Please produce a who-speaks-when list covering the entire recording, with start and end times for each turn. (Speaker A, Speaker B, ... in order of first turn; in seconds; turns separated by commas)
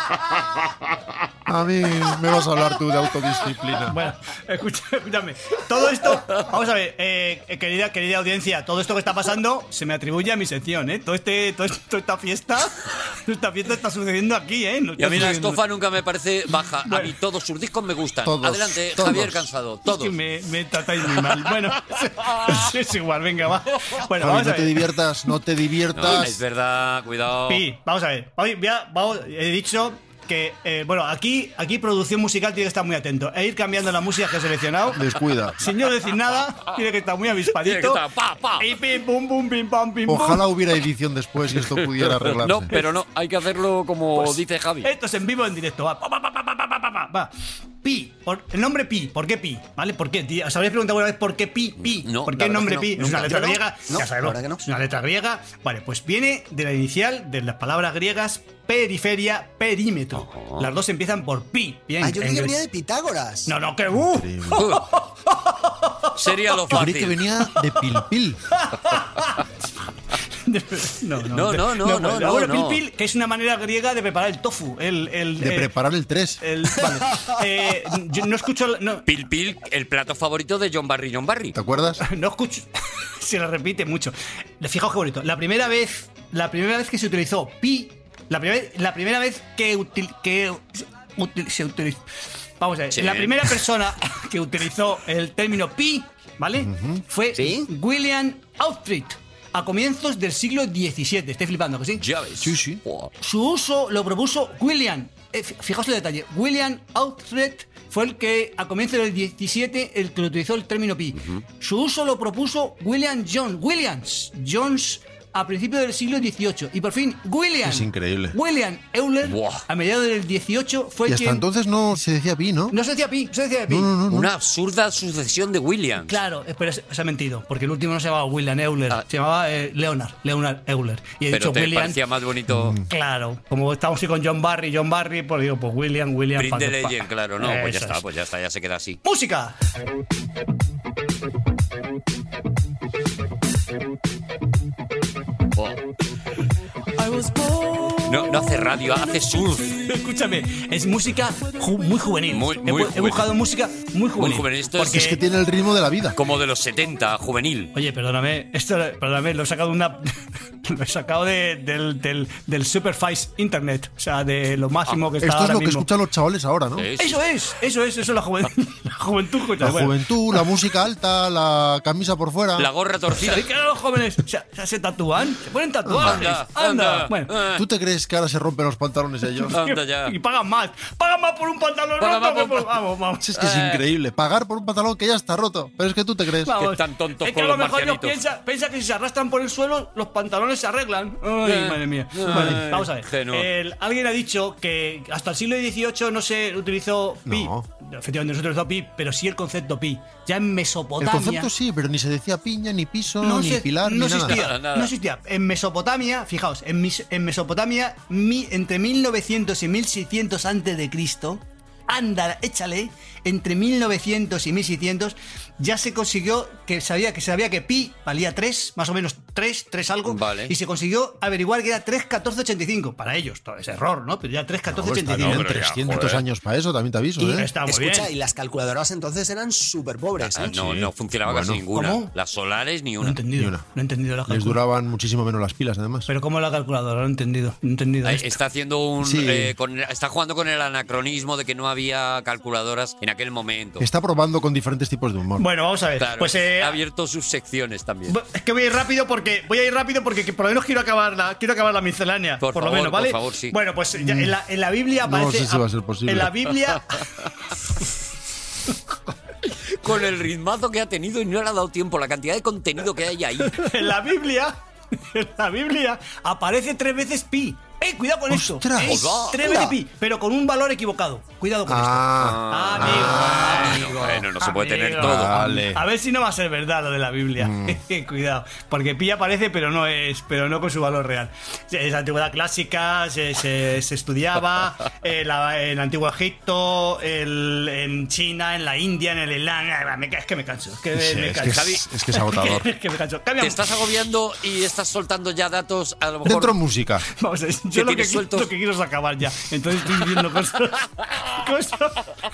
Speaker A: 1.4-4.0, Speaker B: 3.9-15.6, Speaker C: 15.0-20.2, Speaker B: 16.9-17.1, Speaker A: 18.2-19.5, Speaker B: 19.8-24.9, Speaker C: 22.2-22.6, Speaker A: 24.1-26.4, Speaker C: 25.9-27.6, Speaker B: 27.5-35.1, Speaker A: 34.9-35.6, Speaker B: 35.6-38.0, Speaker C: 37.6-38.7, Speaker B: 38.6-40.5, Speaker A: 40.1-42.7, Speaker C: 41.6-44.9, Speaker B: 44.1-47.3, Speaker B: 47.8-62.6, Speaker C: 51.8-53.5, Speaker D: 53.2-54.6, Speaker C: 60.2-60.7, Speaker D: 62.0-63.5, Speaker B: 63.5-66.3, Speaker A: 63.9-64.7, Speaker C: 64.6-64.9, Speaker C: 66.1-67.2, Speaker A: 66.7-68.4, Speaker B: 68.5-69.5, Speaker B: 70.2-75.7, Speaker C: 71.3-72.8, Speaker A: 75.4-76.4, Speaker B: 76.4-79.0, Speaker C: 79.0-81.5, Speaker A: 81.5-82.0, Speaker B: 82.0-92.0, Speaker B: 92.6-102.0, Speaker C: 92.9-93.6, Speaker A: 96.6-97.0, Speaker D: 97.3-97.7, Speaker C: 102.0-103.1, Speaker A: 102.4-102.8, Speaker B: 103.2-121.4, Speaker C: 111.2-111.4, Speaker A: 117.6-118.3, Speaker C: 119.2-119.6, Speaker A: 121.1-122.8, Speaker B: 122.7-123.9, Speaker A: 123.7-124.3, Speaker C: 124.1-126.2, Speaker B: 126.0-132.0, Speaker C: 131.3-132.8, Speaker A: 132.5-132.8, Speaker B: 132.9-138.0, Speaker C: 136.3-139.0, Speaker B: 139.0-139.6, Speaker B: 147.0-148.4, Speaker C: 148.0-149.8, Speaker B: 149.7-155.2, Speaker C: 152.3-153.3, Speaker C: 154.2-155.2, Speaker A: 154.8-156.2, Speaker C: 156.1-157.7, Speaker B: 157.7-165.9, Speaker A: 165.2-166.9, Speaker C: 166.8-167.2, Speaker B: 167.0-170.5, Speaker A: 169.6-172.7, Speaker C: 172.6-173.4, Speaker B: 173.1-177.3, Speaker A: 175.8-176.3, Speaker C: 176.0-177.6, Speaker A: 177.5-179.6, Speaker B: 179.5-183.3, Speaker C: 179.5-180.1, Speaker C: 182.0-182.7, Speaker A: 183.2-186.5, Speaker C: 183.4-183.8, Speaker B: 186.4-201.5, Speaker C: 186.5-188.2, Speaker C: 191.4-193.5, Speaker A: 192.3-192.7, Speaker A: 197.3-197.6, Speaker A: 201.0-204.4, Speaker B: 203.2-225.4, Speaker C: 204.2-204.9, Speaker C: 220.1-220.5, Speaker A: 224.7-227.5, Speaker C: 225.2-226.2, Speaker D: 227.2-230.4, Speaker B: 227.3-228.1, Speaker C: 230.2-233.2, Speaker A: 230.4-231.6, Speaker B: 231.7-232.1, Speaker B: 233.0-234.6, Speaker A: 233.3-233.6, Speaker A: 234.3-236.1, Speaker B: 236.1-238.4, Speaker C: 238.0-243.9, Speaker A: 239.0-239.5, Speaker A: 243.8-245.4, Speaker B: 245.4-246.8, Speaker C: 246.0-248.2, Speaker B: 248.1-257.1, Speaker C: 252.4-253.6, Speaker A: 254.0-254.3, Speaker A: 255.0-256.4, Speaker C: 259.8-263.7, Speaker B: 263.4-293.8, Speaker A: 268.3-269.6, Speaker C: 268.8-269.4, Speaker A: 271.6-273.3, Speaker C: 272.2-275.4, Speaker A: 275.0-275.8, Speaker A: 277.4-277.8, Speaker A: 290.9-292.7, Speaker C: 291.4-292.5, Speaker C: 293.4-296.6, Speaker A: 296.2-297.1, Speaker B: 297.1-302.1, Speaker C: 297.7-298.5